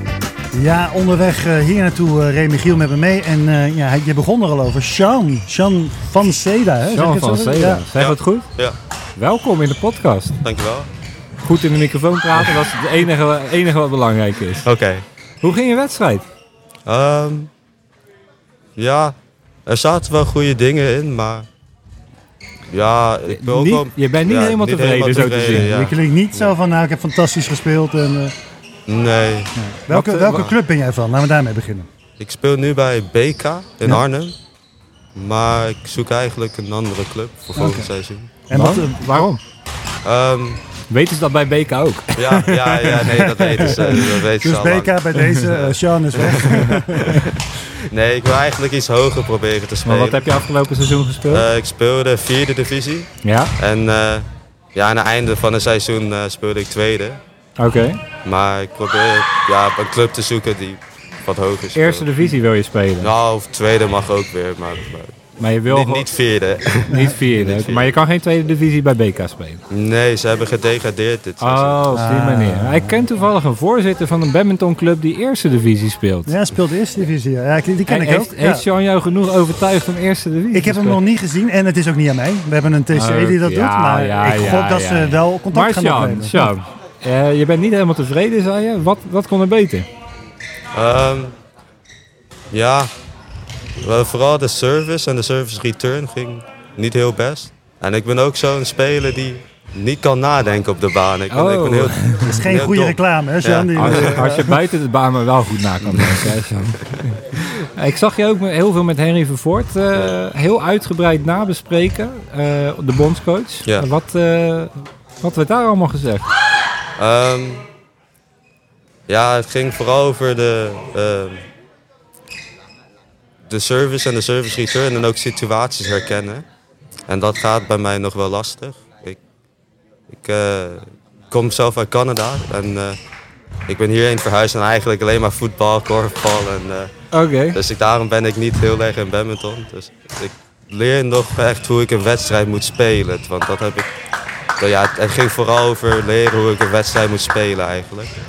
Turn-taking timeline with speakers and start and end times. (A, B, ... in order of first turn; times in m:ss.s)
0:00.5-0:07.9 A
0:06.9-0:08.5 B
0:08.0-0:08.8 C
0:09.2-0:10.4 B
0:10.4-0:10.9 C
0:11.4-0:14.7 B
0:14.6-0:15.0 C
0:15.4-0:16.2 B
0:16.9-0:17.5 C
0:18.8-0:19.2 C
0:19.7-0:21.5 C
0:22.7-0:26.5 C
0:23.3-0:25.8 B
0:25.5-0:28.3 A
0:28.9-0:29.5 C
0:29.6-0:31.9 A
0:29.9-0:30.5 B
0:32.2-0:34.4 C
0:35.2-0:38.3 C
0:37.6-0:37.9 A
0:38.5-0:39.3 A
0:38.5-0:39.4 B
0:40.0-0:40.6 C
0:40.9-0:42.1 B
0:42.2-0:45.0 C
0:42.3-0:47.3 A
0:45.5-0:47.2 C
0:47.9-0:50.3 C
0:49.8-0:51.5 B
0:51.3-0:57.2 C
0:53.2-0:53.5 B
0:57.6-0:58.0 B
0:58.2-1:02.4 C
1:01.8-1:03.1 B
1:03.0-1:08.0 C
1:05.4-1:06.1 B
1:06.9-1:09.6 B
1:06.9-1:07.2 A
1:09.7-1:12.0 C
1:11.4-1:16.3 B
1:11.9-1:13.1 A
1:16.3-1:18.6 A
1:17.9-1:21.0 B
1:20.5-1:26.5 A
1:22.9-1:29.9 B
1:30.7-1:31.3 C
1:32.5-1:32.9 C
1:33.8-1:44.4 C
1:41.3-1:42.5 B
1:42.2-1:44.5 A
1:43.8-1:56.3 B
1:57.0-1:57.7 C
1:59.1-2:01.4 C
2:03.5-2:06.5 C
2:07.1-2:09.2 C
2:10.1-2:13.0 C
2:13.7-2:16.9 C
2:17.1-2:17.6 B
2:17.5-2:23.9 C
2:24.6-2:28.1 C